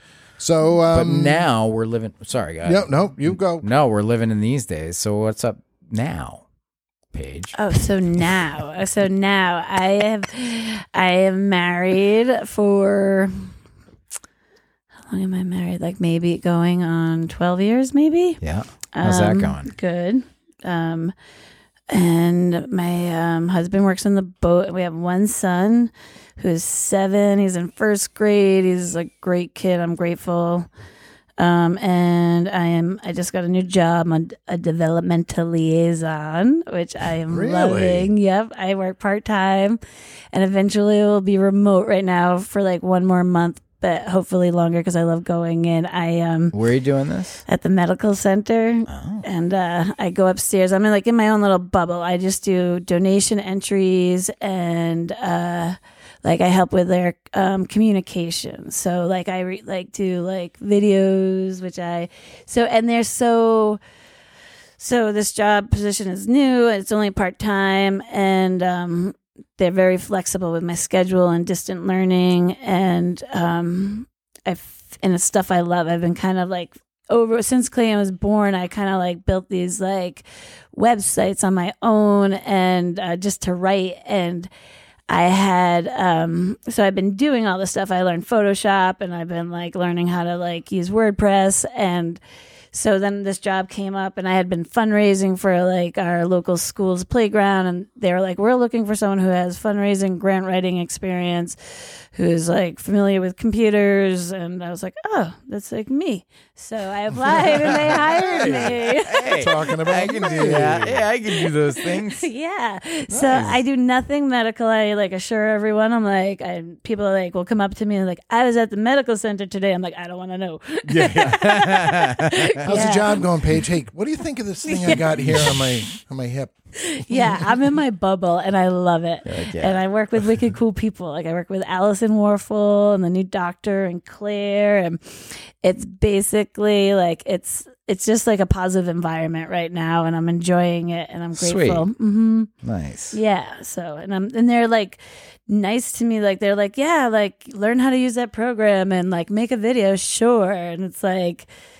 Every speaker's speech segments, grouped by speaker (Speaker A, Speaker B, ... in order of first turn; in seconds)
Speaker A: 0.4-1.5, 2.6-3.7, 37.3-38.1, 107.4-111.1, 113.1-113.6, 120.8-121.8, 122.6-126.5, 127.1-127.4
Speaker B: 0.9-6.4, 7.1-7.5, 18.4-19.7, 46.5-47.4, 48.9-49.2, 108.4-112.2, 121.5-122.8, 129.3-129.8, 141.4-141.9, 142.6-143.2
Speaker C: 7.5-13.5, 15.1-18.4, 18.9-21.1, 21.9-30.7, 31.4-39.8, 40.3-46.6, 47.5-63.8, 64.8-84.5, 85.1-92.2, 92.7-101.6, 102.1-109.5, 111.3-123.3, 124.7-125.7, 126.8-142.5, 143.1-151.5